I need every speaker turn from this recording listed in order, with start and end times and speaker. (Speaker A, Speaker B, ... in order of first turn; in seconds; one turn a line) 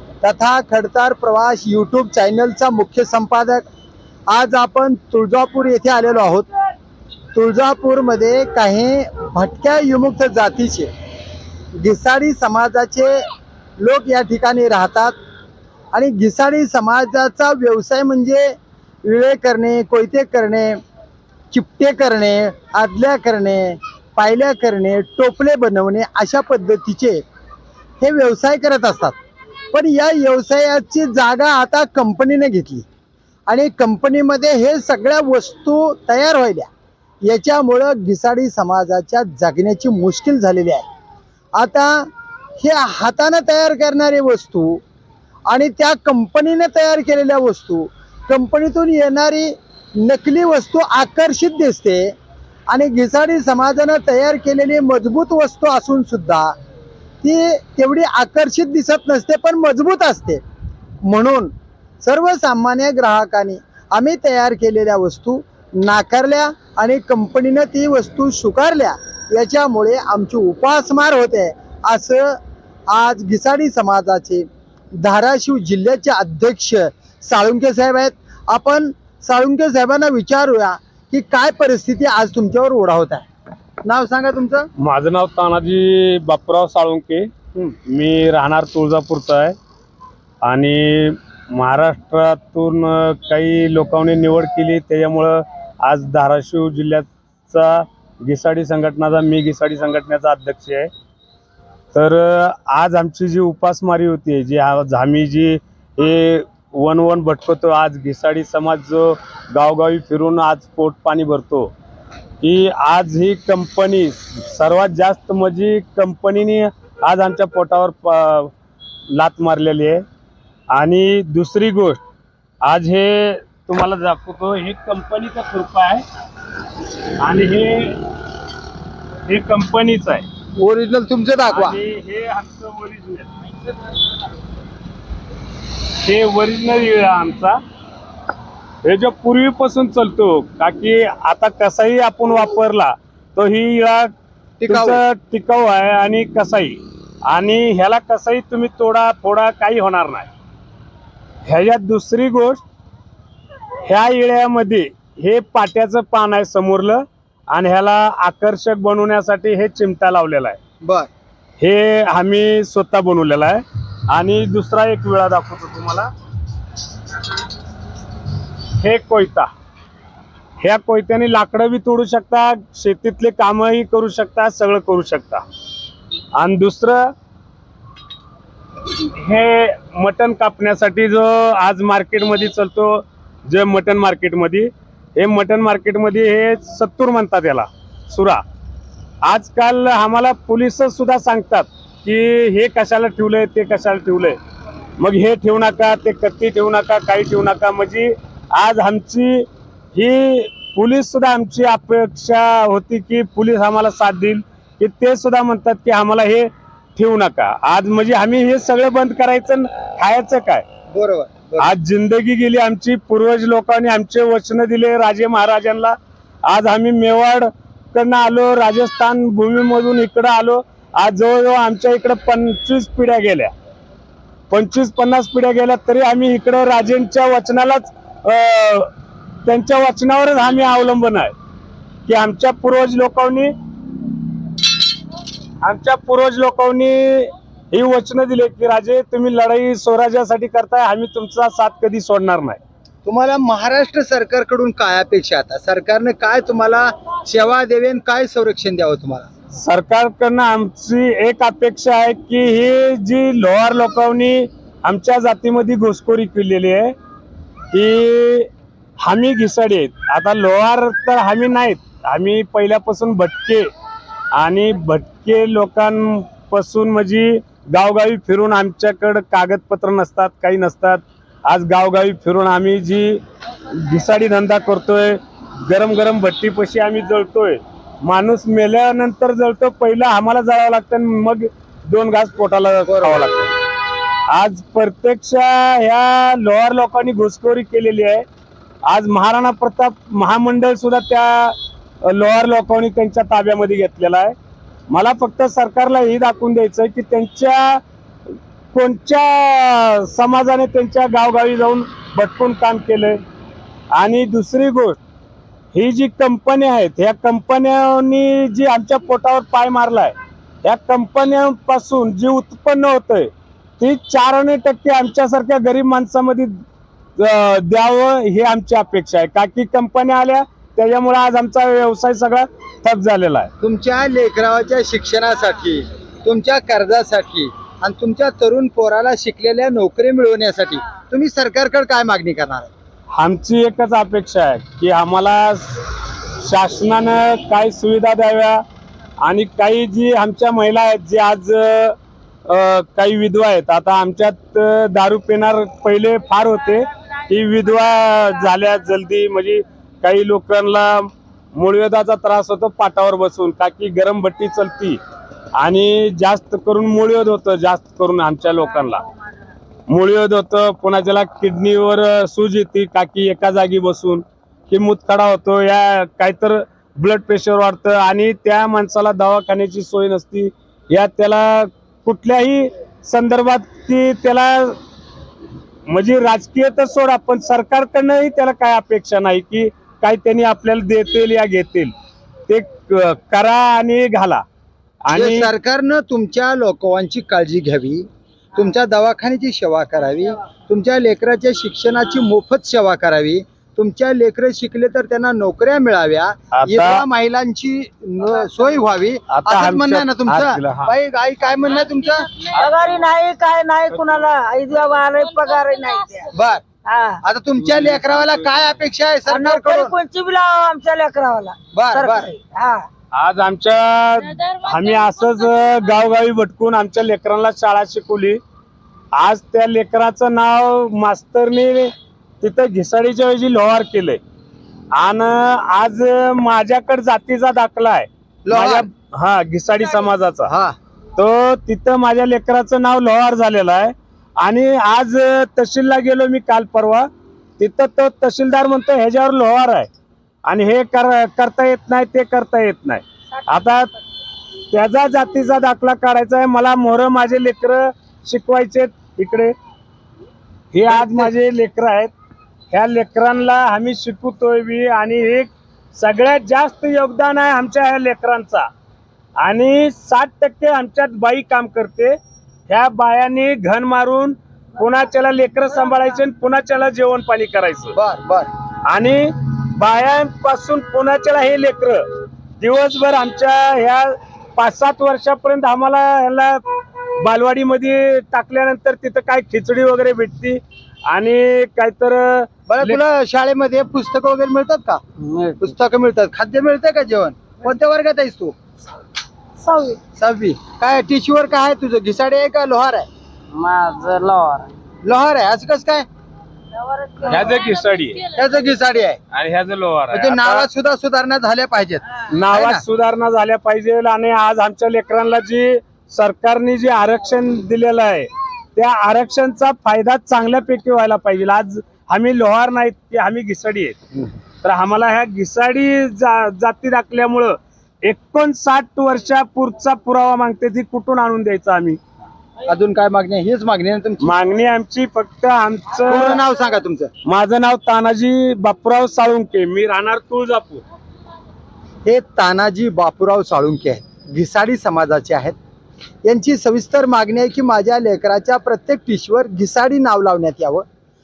Speaker A: 0.2-3.6
Speaker A: 4.3-6.5
Speaker A: 7.3-10.9
Speaker A: 11.8-13.2
Speaker A: 13.8-15.1
Speaker A: 15.9-20.8
Speaker A: 21.5-27.2
Speaker A: 28.0-29.2
Speaker A: 29.7-32.9
Speaker A: 33.5-36.7
Speaker A: 37.2-40.9
Speaker A: 41.6-42.1
Speaker A: 42.6-44.8
Speaker A: 45.5-52.1
Speaker A: 52.7-56.5
Speaker A: 57.2-60.4
Speaker A: 61.0-72.4
Speaker A: 72.9-83.3
Speaker A: 83.8-84.7
Speaker B: 84.8-87.3
Speaker B: 87.9-89.5
Speaker B: 90.4-100.9
Speaker B: 101.9-111.7
Speaker B: 112.4-118.5
Speaker B: 119.1-120.0
Speaker B: 120.7-122.0
Speaker B: 122.6-126.0
Speaker B: 127.2-128.1
Speaker B: 129.3-130.2
Speaker A: 130.6-131.8
Speaker B: 131.5-133.3
Speaker B: 136.0-137.6
Speaker B: 138.8-144.1
Speaker A: 144.6-145.0
Speaker B: 144.7-150.3
Speaker B: 151.5-152.6
Speaker B: 153.8-160.6
Speaker A: 160.8-161.1
Speaker B: 161.6-166.1
Speaker B: 168.8-169.5
Speaker B: 170.6-175.4
Speaker B: 176.4-177.0
Speaker B: 179.0-188.4
Speaker B: 189.2-194.4
Speaker B: 195.0-210.7
Speaker A: 210.9-211.7
Speaker B: 211.6-223.5
Speaker B: 224.5-228.9
Speaker B: 229.4-231.3
Speaker B: 232.1-233.5
Speaker B: 235.6-242.6
Speaker A: 243.1-249.3
Speaker B: 249.5-256.9
Speaker B: 257.7-258.5
Speaker B: 259.0-263.7
Speaker B: 264.4-283.5
Speaker A: 282.9-283.2
Speaker B: 284.3-288.2
Speaker B: 288.9-294.3
Speaker B: 294.9-297.8
Speaker B: 298.7-303.2
Speaker B: 303.9-305.0
Speaker B: 305.7-316.5
Speaker B: 317.2-323.5
Speaker A: 323.6-332.7
Speaker B: 333.1-338.6
Speaker B: 339.2-342.0
Speaker B: 342.5-355.0
Speaker B: 355.6-359.0
Speaker B: 359.9-374.8
Speaker B: 375.9-381.9
Speaker B: 382.5-384.4
Speaker B: 385.1-385.5
Speaker A: 385.1-402.4
Speaker B: 396.5-397.1
Speaker B: 399.3-400.9
Speaker C: 402.5-406.3
Speaker A: 406.3-406.6
Speaker C: 406.9-407.2
Speaker A: 407.2-410.0
Speaker B: 407.6-408.5
Speaker C: 409.3-412.9
Speaker A: 411.7-412.3
Speaker B: 413.1-418.4
Speaker B: 419.1-424.2
Speaker B: 424.9-430.5
Speaker A: 428.4-428.9
Speaker A: 430.5-430.8
Speaker B: 431.2-437.1
Speaker B: 437.6-439.9
Speaker B: 440.5-443.9
Speaker B: 444.7-449.6
Speaker B: 450.7-452.1
Speaker A: 450.9-451.3
Speaker B: 452.7-458.7
Speaker B: 459.4-462.2
Speaker B: 462.7-467.9
Speaker A: 467.9-468.5
Speaker B: 468.9-472.0
Speaker B: 472.6-483.0
Speaker A: 482.7-485.0
Speaker A: 485.6-488.6
Speaker C: 489.6-490.0
Speaker A: 490.2-493.1
Speaker C: 493.5-494.7
Speaker A: 495.0-496.1
Speaker C: 496.8-497.7
Speaker B: 497.2-498.4
Speaker A: 498.3-499.2
Speaker B: 499.3-500.7
Speaker A: 500.1-502.8
Speaker B: 502.3-514.0
Speaker B: 514.6-522.0
Speaker A: 522.7-524.3
Speaker B: 524.2-526.4
Speaker A: 526.1-527.1
Speaker B: 527.2-530.8
Speaker A: 532.0-535.6
Speaker A: 536.2-540.9